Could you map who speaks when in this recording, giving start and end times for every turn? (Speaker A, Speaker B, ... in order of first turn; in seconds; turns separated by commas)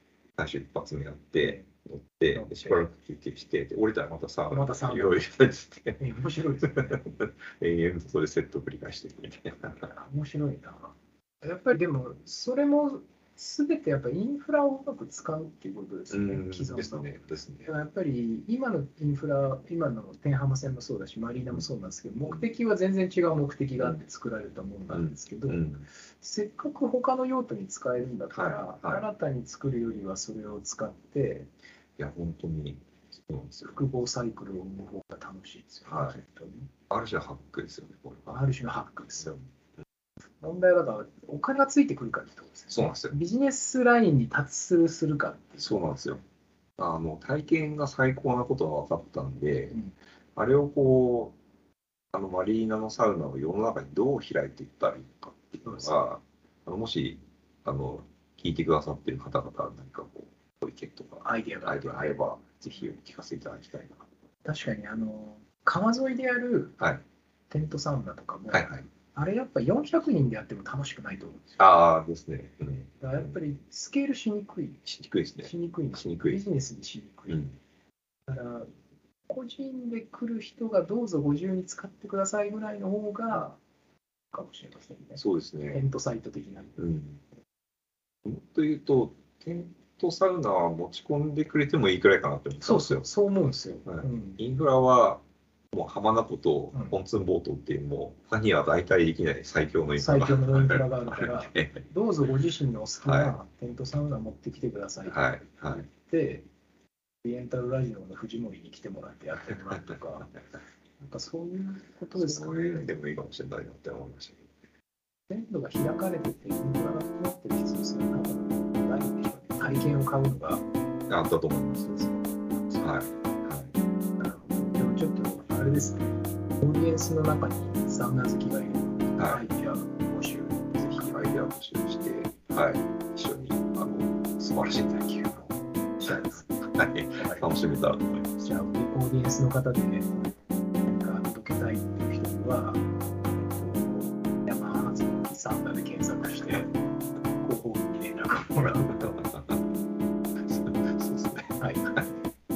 Speaker A: 0.4-6.0, Speaker B: 1.4-1.7, Speaker B: 2.3-2.9, Speaker B: 4.5-5.3, Speaker B: 6.0-7.0, Speaker A: 6.6-9.9, Speaker B: 9.8-17.1, Speaker A: 16.1-17.7, Speaker B: 17.6-31.5, Speaker A: 24.9-25.9, Speaker A: 28.3-29.1, Speaker A: 32.0-33.8, Speaker B: 33.7-36.7, Speaker A: 35.9-36.2, Speaker A: 36.9-38.3, Speaker B: 38.3-39.4, Speaker B: 40.4-45.8, Speaker A: 42.7-43.2, Speaker A: 45.6-46.2, Speaker A: 46.8-49.8, Speaker A: 50.4-51.4, Speaker A: 52.1-64.1, Speaker B: 55.6-56.0, Speaker B: 61.2-62.2, Speaker B: 64.5-66.8, Speaker B: 67.5-71.6, Speaker A: 68.5-68.8, Speaker A: 71.6-73.4, Speaker B: 73.0-74.9, Speaker A: 74.9-76.4, Speaker B: 75.4-77.5, Speaker A: 77.3-77.5, Speaker B: 78.3-78.7, Speaker B: 79.3-83.6, Speaker B: 84.3-86.8, Speaker A: 85.2-85.8, Speaker A: 86.8-87.2, Speaker A: 88.2-93.1, Speaker B: 92.6-94.4, Speaker A: 93.9-101.8, Speaker B: 100.0-106.5, Speaker A: 103.0-103.4, Speaker A: 105.1-105.8, Speaker B: 107.2-110.3, Speaker B: 111.0-112.9, Speaker A: 112.1-114.5, Speaker B: 115.3-120.6, Speaker A: 119.6-119.9, Speaker A: 121.1-122.1, Speaker B: 122.0-122.8, Speaker A: 122.8-123.7, Speaker B: 124.2-131.3, Speaker A: 129.2-129.4, Speaker A: 130.8-138.3, Speaker B: 136.0-136.5, Speaker B: 137.2-137.6, Speaker B: 138.4-140.3, Speaker B: 140.9-142.8, Speaker B: 143.4-146.7, Speaker B: 147.3-149.2, Speaker A: 148.6-149.6, Speaker A: 150.5-152.1, Speaker B: 151.6-151.9